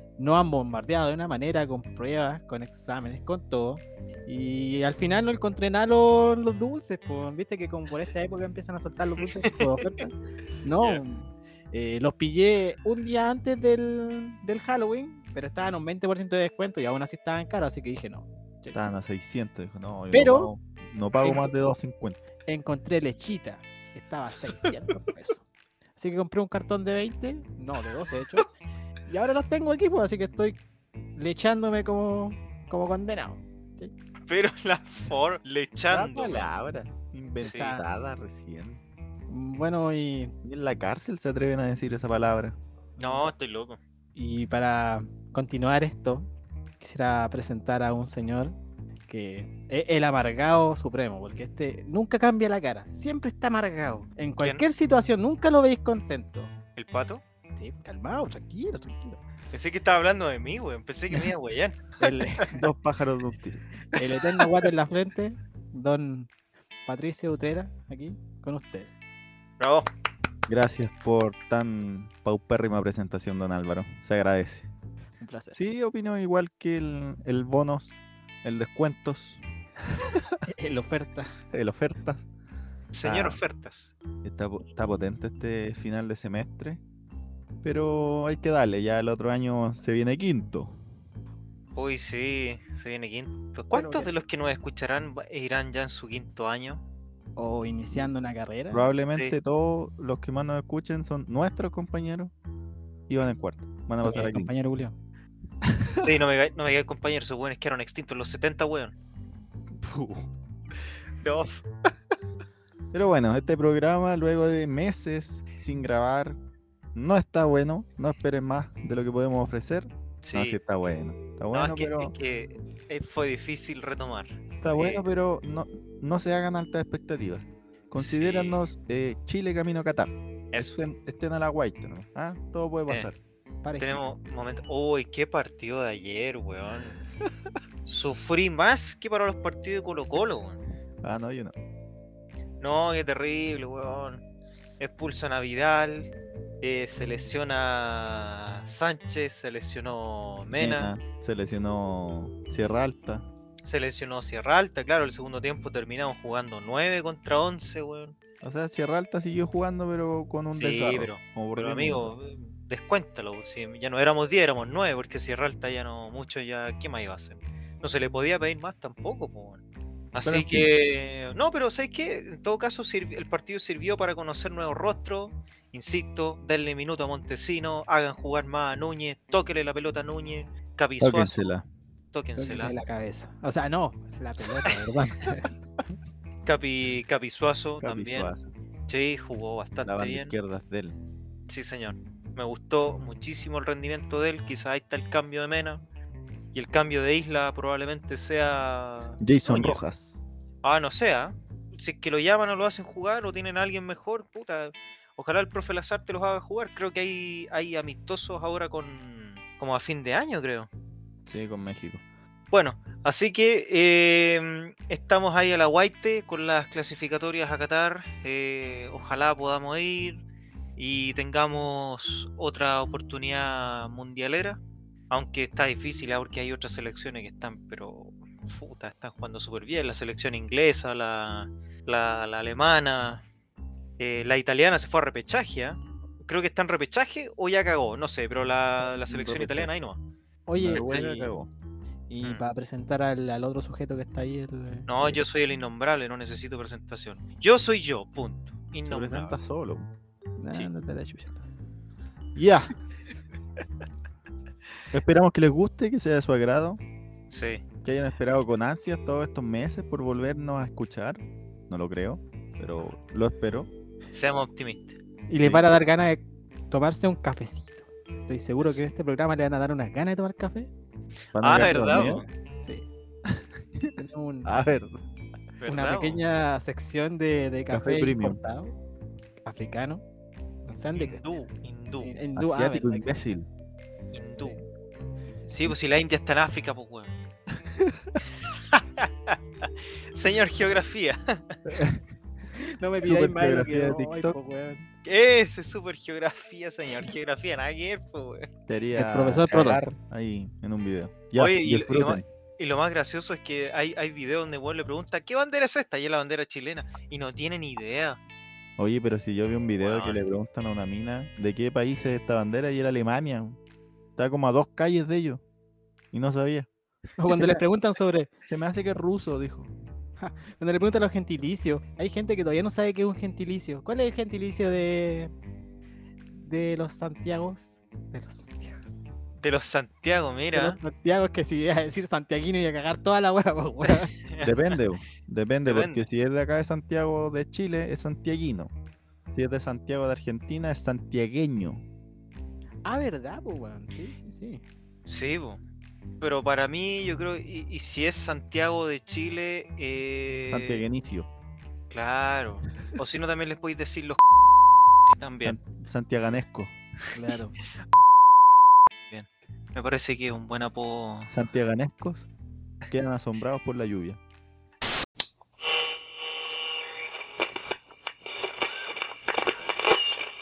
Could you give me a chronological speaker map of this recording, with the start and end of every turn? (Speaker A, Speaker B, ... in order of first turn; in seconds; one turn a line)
Speaker A: 0.2-18.8
Speaker B: 18.7-22.2
Speaker A: 20.1-20.5
Speaker A: 21.2-21.4
Speaker A: 22.5-25.4
Speaker A: 26.0-28.5
Speaker A: 29.1-30.6
Speaker A: 31.2-33.9
Speaker C: 34.3-36.5
Speaker B: 35.9-38.8
Speaker A: 37.4-37.8
Speaker C: 37.4-37.7
Speaker A: 39.3-40.3
Speaker B: 40.4-42.6
Speaker A: 43.0-43.3
Speaker C: 43.0-43.8
Speaker A: 44.2-46.3
Speaker A: 46.8-48.6
Speaker A: 49.1-56.5
Speaker C: 56.8-57.2
Speaker A: 57.6-59.2
Speaker C: 59.5-62.2
Speaker A: 62.0-62.6
Speaker B: 62.5-63.6
Speaker A: 63.9-66.3
Speaker A: 66.9-68.9
Speaker C: 69.6-69.9
Speaker B: 70.5-74.7
Speaker A: 75.2-75.6
Speaker B: 75.5-79.4
Speaker B: 80.0-80.4
Speaker A: 80.5-81.3
Speaker B: 81.5-82.3
Speaker C: 82.9-83.9
Speaker B: 83.0-83.4
Speaker B: 84.2-86.8
Speaker B: 87.6-90.8
Speaker C: 91.8-96.8
Speaker A: 93.7-94.1
Speaker A: 97.4-98.9
Speaker B: 98.7-102.3
Speaker B: 103.1-104.5
Speaker A: 104.0-104.9
Speaker B: 105.6-106.1
Speaker C: 106.0-108.9
Speaker B: 109.7-110.3
Speaker C: 111.2-111.6
Speaker B: 112.9-116.4
Speaker B: 116.9-122.1
Speaker C: 120.2-120.6
Speaker C: 121.5-125.0
Speaker B: 124.6-133.2
Speaker C: 127.9-128.6
Speaker C: 130.5-130.8
Speaker A: 133.6-134.1
Speaker C: 133.8-137.0
Speaker C: 137.8-140.6
Speaker B: 141.0-141.5
Speaker C: 142.6-144.2
Speaker C: 144.8-150.9
Speaker B: 150.5-153.3
Speaker C: 153.7-158.2
Speaker B: 158.4-162.1
Speaker C: 160.5-169.6
Speaker C: 170.1-181.5
Speaker B: 170.2-170.7
Speaker B: 181.0-181.7
Speaker C: 182.1-182.8
Speaker A: 182.4-185.5
Speaker C: 186.5-188.3
Speaker B: 187.8-188.5
Speaker C: 188.9-190.3
Speaker B: 189.8-191.0
Speaker C: 191.5-195.8
Speaker C: 196.5-199.8
Speaker B: 199.2-200.2
Speaker C: 200.6-210.7
Speaker B: 211.3-212.0
Speaker C: 212.5-220.2
Speaker C: 220.8-233.2
Speaker C: 234.0-240.0
Speaker B: 239.1-239.7
Speaker A: 240.5-241.3
Speaker B: 240.6-241.5
Speaker C: 240.7-241.1
Speaker A: 242.1-244.9
Speaker C: 244.9-249.4
Speaker B: 248.8-249.9
Speaker A: 250.4-251.5
Speaker B: 252.3-252.7
Speaker B: 254.9-256.8
Speaker C: 257.3-257.6
Speaker B: 257.8-263.7
Speaker C: 264.1-265.0
Speaker A: 265.3-270.7
Speaker B: 265.4-265.7
Speaker B: 271.4-272.2
Speaker C: 271.4-272.3
Speaker A: 271.8-272.9
Speaker B: 273.3-275.0
Speaker A: 274.0-274.5
Speaker C: 275.6-276.2
Speaker A: 275.6-278.8
Speaker B: 277.7-278.4
Speaker A: 279.4-280.0
Speaker A: 280.6-281.2
Speaker C: 281.0-282.1
Speaker A: 282.0-283.1
Speaker B: 282.4-283.5
Speaker C: 284.1-284.6
Speaker C: 285.5-287.1
Speaker B: 287.5-288.2
Speaker C: 288.5-291.6
Speaker B: 291.7-292.0
Speaker A: 292.5-294.9
Speaker B: 293.0-294.4
Speaker C: 295.0-298.5
Speaker B: 298.7-302.2
Speaker A: 299.0-299.8
Speaker C: 301.4-308.2
Speaker B: 308.8-313.6
Speaker C: 309.8-310.2
Speaker B: 314.2-315.4
Speaker B: 316.1-316.7
Speaker A: 317.2-318.3
Speaker B: 317.3-317.6
Speaker B: 318.5-319.7
Speaker A: 320.2-325.3
Speaker A: 326.3-328.9
Speaker C: 329.4-330.8
Speaker A: 330.5-334.1
Speaker C: 334.1-334.8
Speaker B: 334.4-338.7
Speaker C: 335.6-336.1
Speaker B: 339.3-341.8
Speaker A: 342.9-344.6
Speaker C: 345.1-345.6
Speaker C: 346.2-350.9
Speaker B: 350.5-351.3
Speaker C: 351.9-354.2
Speaker C: 355.1-355.6
Speaker B: 355.4-356.7
Speaker A: 357.1-357.5
Speaker C: 359.1-361.3
Speaker B: 361.3-362.3
Speaker B: 362.9-364.2